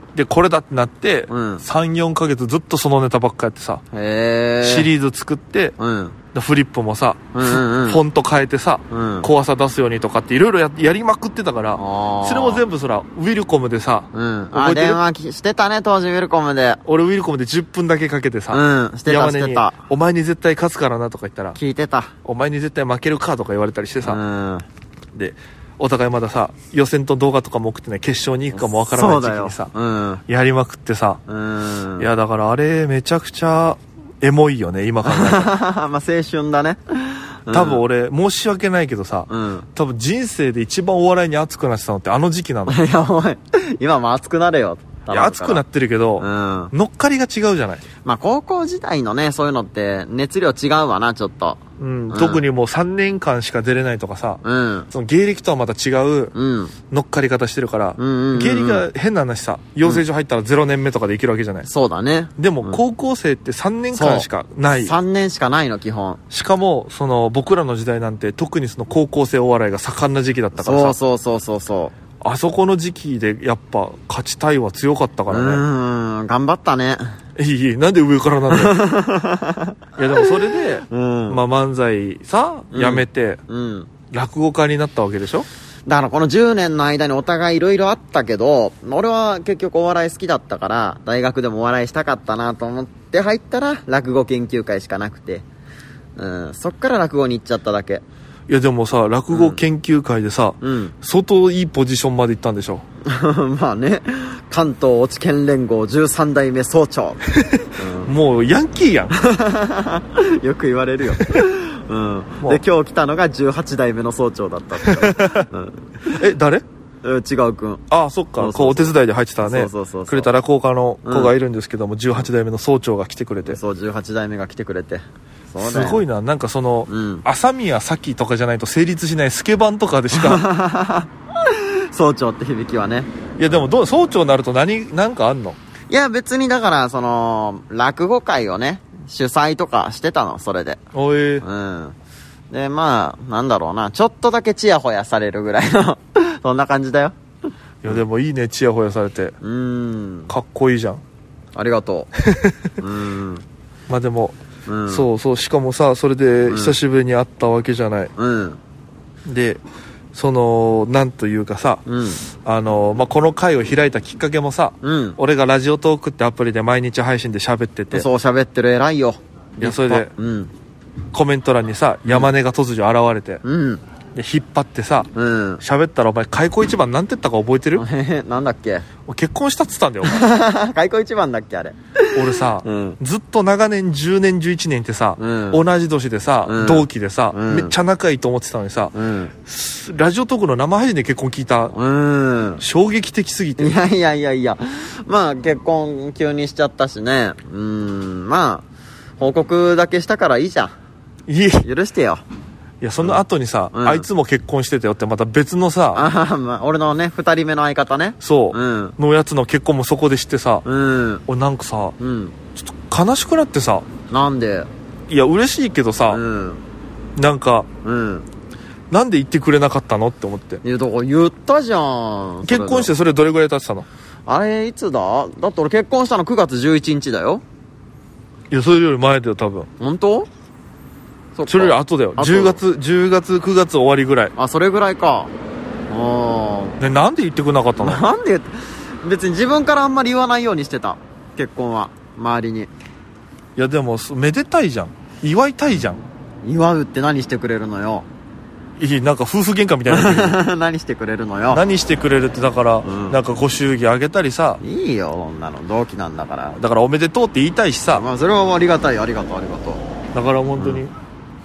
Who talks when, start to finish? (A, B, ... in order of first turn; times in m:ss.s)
0:00.2-0:03.8 A
0:01.3-0:01.6 B
0:03.9-0:04.9 B
0:04.6-0:05.8 A
0:05.8-0:06.2 B
0:06.3-0:15.0 A
0:07.3-0:08.0 B
0:08.9-0:09.3 B
0:11.8-0:12.6 B
0:14.1-0:16.8 B
0:16.9-0:21.6 A
0:18.5-0:19.8 B
0:21.6-0:22.1 B
0:22.2-0:24.2 A
0:24.0-0:24.6 B
0:25.1-0:29.7 A
0:28.5-0:30.2 B
0:30.3-0:31.2 A
0:31.3-0:32.1 B
0:32.0-0:35.5 A
0:35.0-0:37.8 B
0:37.5-0:42.8 A
0:39.3-0:39.7 B
0:42.7-0:45.6 B
0:45.1-0:47.8 A
0:46.2-0:46.7 B
0:48.0-0:51.6 B
0:51.8-0:56.3 A
0:52.1-0:52.4 B
0:54.4-0:54.9 B
0:56.3-0:56.7 B
0:56.9-1:01.7 A
0:58.0-0:58.9 B
1:01.6-1:02.8 B
1:02.4-1:05.0 A
1:03.9-1:06.2 B
1:06.3-1:11.0 A
1:10.6-1:12.0 B
1:12.2-1:15.6 A
1:15.3-1:17.1 B
1:17.4-1:18.8 A
1:18.5-1:21.4 B
1:20.0-1:23.4 A
1:22.7-1:23.9 B
1:24.1-1:25.5 A
1:25.9-1:35.4 B
1:36.2-1:38.0 B
1:38.5-1:42.8 A
1:39.3-1:39.6 B
1:40.6-1:41.0 B
1:43.0-1:47.2 B
1:47.4-1:49.2 A
1:47.8-1:48.1 B
1:49.1-1:55.8 B
1:51.2-1:51.5 A
1:54.8-1:55.5 A
1:56.1-1:56.6 A
1:57.0-1:57.8 B
1:57.9-2:03.6 A
1:58.4-2:00.3 B
2:01.0-2:01.3 B
2:03.5-2:06.0 B
2:05.6-2:10.4 A
2:06.9-2:07.2 B
2:10.1-2:13.1 B
2:13.4-2:15.6 A
2:15.9-2:20.8 B
2:20.9-2:21.4 A
2:21.4-2:22.0 B
2:22.5-2:27.2 B
2:27.8-2:29.4 A
2:29.4-2:30.3 B
2:30.3-2:31.0 A
2:31.5-2:32.1 B
2:32.2-2:32.7 A
2:32.8-2:33.4 B
2:33.9-2:34.4 A
2:34.7-2:35.1 B
2:34.9-2:38.1 A
2:36.5-2:36.8 B
2:38.2-2:38.6 B
2:39.3-2:39.6 A
2:40.1-2:41.8 A
2:41.9-2:42.2 B
2:42.4-2:48.1 A
2:44.8-2:45.2 B
2:47.9-2:50.5 B
2:49.6-2:50.1 A
2:51.1-2:53.4 A
2:53.4-2:53.8 B
2:54.2-2:55.1 A
2:55.2-2:55.6 B
2:55.6-2:57.8 A
2:57.8-2:58.9 B
2:59.1-3:00.2 A
3:00.0-3:03.0 B
3:02.1-3:09.0 A
3:05.2-3:05.6 B
3:06.4-3:07.8 B
3:08.9-3:09.3 B
3:09.5-3:11.8 A
3:11.7-3:12.6 B
3:12.6-3:13.8 A
3:13.6-3:18.6 B
3:19.2-3:20.8 B
3:21.3-3:21.7 A
3:21.6-3:22.2 B
3:22.8-3:26.0 A
3:23.7-3:24.1 B
3:25.9-3:29.0 B
3:28.2-3:30.6 A
3:30.6-3:31.2 B
3:31.3-3:32.0 A
3:32.0-3:32.4 B
3:32.6-3:33.9 A
3:34.1-3:34.7 B
3:35.1-3:36.2 A
3:36.1-3:36.6 B
3:37.2-3:37.7 A
3:37.8-3:38.3 B
3:38.9-3:40.6 A
3:40.6-3:42.9 B
3:42.4-3:43.9 A
3:44.3-3:47.4 B
3:48.5-3:49.7 A
3:49.8-3:50.3 B
3:51.4-3:52.6 B
3:51.5-3:54.3 A
3:54.4-3:55.3 B
3:55.9-3:56.8 B
3:56.8-3:58.1 A
3:57.8-4:02.7 B
4:03.6-4:06.0 A
4:06.4-4:08.1 B
4:08.8-4:10.4 A
4:09.9-4:11.6 B
4:11.5-4:14.6 A
4:12.8-4:13.2 B
4:14.6-4:16.6 B
4:16.6-4:18.0 A
4:17.9-4:19.8 B
4:20.1-4:20.9 A